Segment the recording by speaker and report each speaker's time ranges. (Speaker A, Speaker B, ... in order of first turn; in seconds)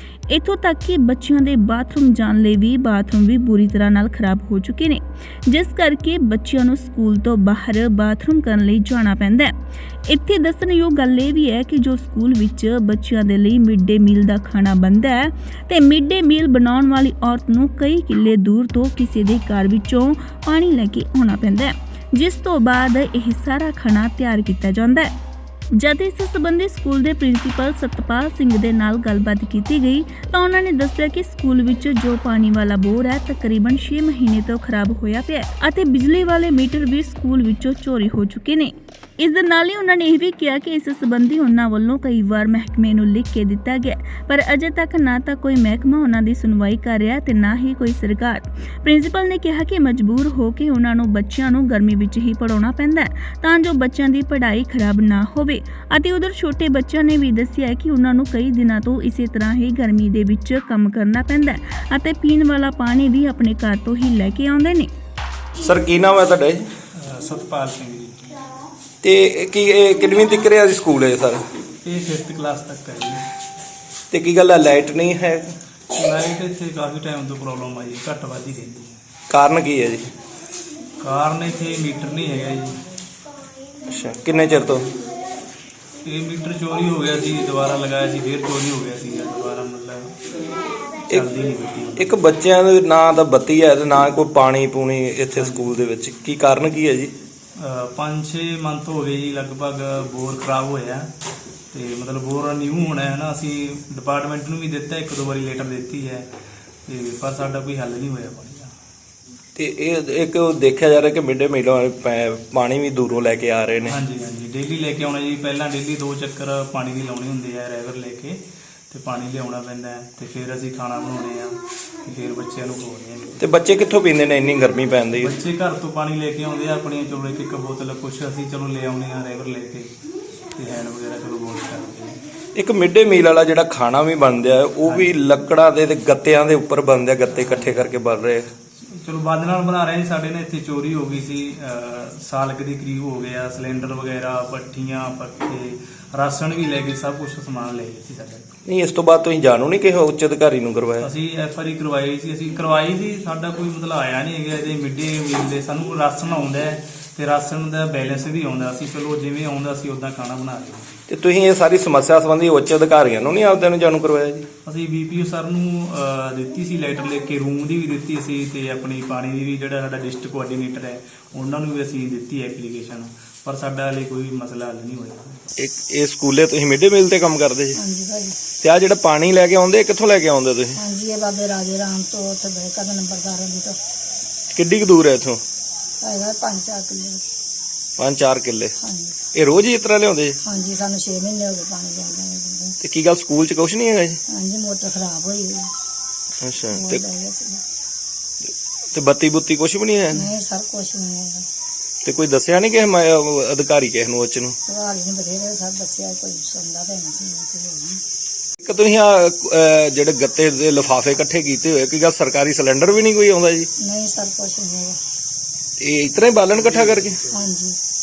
Speaker A: 0.3-9.5, 10.1-25.1, 25.8-64.9
Speaker B: 65.6-66.7, 69.0-71.4, 74.1-75.5, 79.3-80.1, 83.8-84.9, 92.0-97.1, 109.6-113.9, 123.4-125.2, 132.6-138.5, 148.7-151.1, 161.1-164.5, 175.6-177.8, 178.6-180.8, 184.5-185.4, 188.0-188.7, 189.3-190.4, 192.8-194.2, 196.4-197.0, 198.9-200.2, 202.0-204.6, 208.6-213.7, 215.8-217.3
Speaker C: 67.0-68.4, 71.8-73.2, 75.9-79.0, 81.0-82.8, 86.0-90.2, 91.0-92.2, 95.3-95.7, 97.6-101.1, 101.7-106.2, 106.9-108.7, 113.8-123.4, 125.1-129.9, 130.5-132.2, 134.8-135.3, 137.3-137.8, 139.0-148.5, 151.0-161.0, 164.7-175.5
Speaker D: 177.8-178.4, 180.8-183.8, 186.0-187.2, 188.8-189.3, 190.4-192.8, 194.3-195.7, 196.7-197.6, 200.1-201.5, 204.7-208.0, 213.8-215.0, 217.3-217.8